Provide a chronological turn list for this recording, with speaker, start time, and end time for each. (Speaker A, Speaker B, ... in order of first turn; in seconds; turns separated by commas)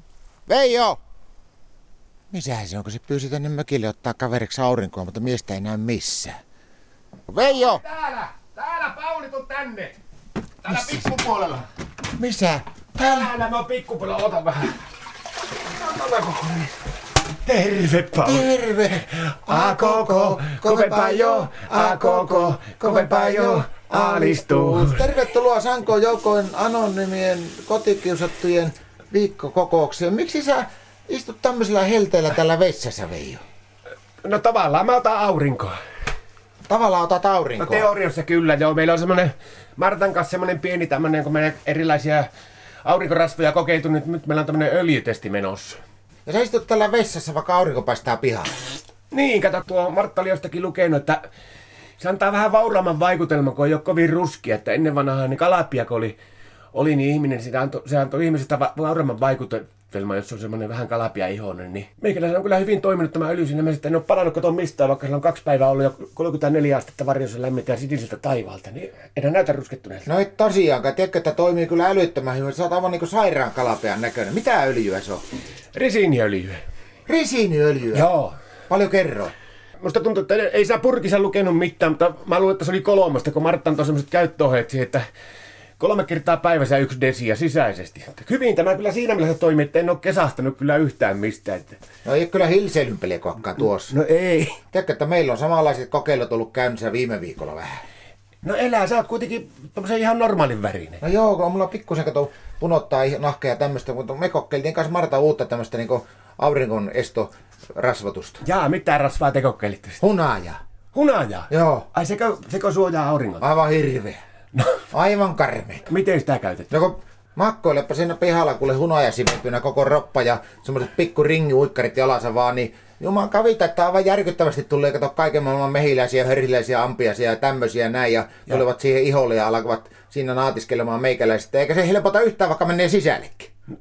Speaker A: 0.5-1.0, Speaker A: 2.3-6.4, Speaker A: 7.3-7.8, Speaker B: 7.4-9.9, Speaker B: 10.6-11.7, Speaker A: 10.7-11.0, Speaker A: 12.2-13.3, Speaker B: 13.0-14.8, Speaker B: 15.7-16.8, Speaker B: 17.4-18.5, Speaker A: 18.2-33.4, Speaker B: 19.0-25.2, Speaker B: 34.2-35.8, Speaker A: 36.7-37.9, Speaker B: 37.6-42.3, Speaker B: 42.9-45.8, Speaker A: 46.3-48.5, Speaker B: 49.1-51.2, Speaker B: 52.0-56.2, Speaker B: 56.7-70.1, Speaker A: 70.1-75.2, Speaker B: 75.7-76.6, Speaker A: 77.1-78.1, Speaker B: 77.9-78.3, Speaker A: 78.7-79.3, Speaker B: 79.8-85.0, Speaker B: 85.8-91.8, Speaker A: 92.0-94.0, Speaker B: 93.9-94.6, Speaker A: 94.7-97.8, Speaker B: 98.4-101.0, Speaker A: 101.0-108.4, Speaker B: 108.4-110.0, Speaker A: 110.0-110.6, Speaker B: 110.9-113.5, Speaker A: 111.5-111.9, Speaker A: 113.4-114.2, Speaker B: 114.5-114.8, Speaker A: 114.9-115.9, Speaker B: 115.9-116.7, Speaker A: 116.7-133.5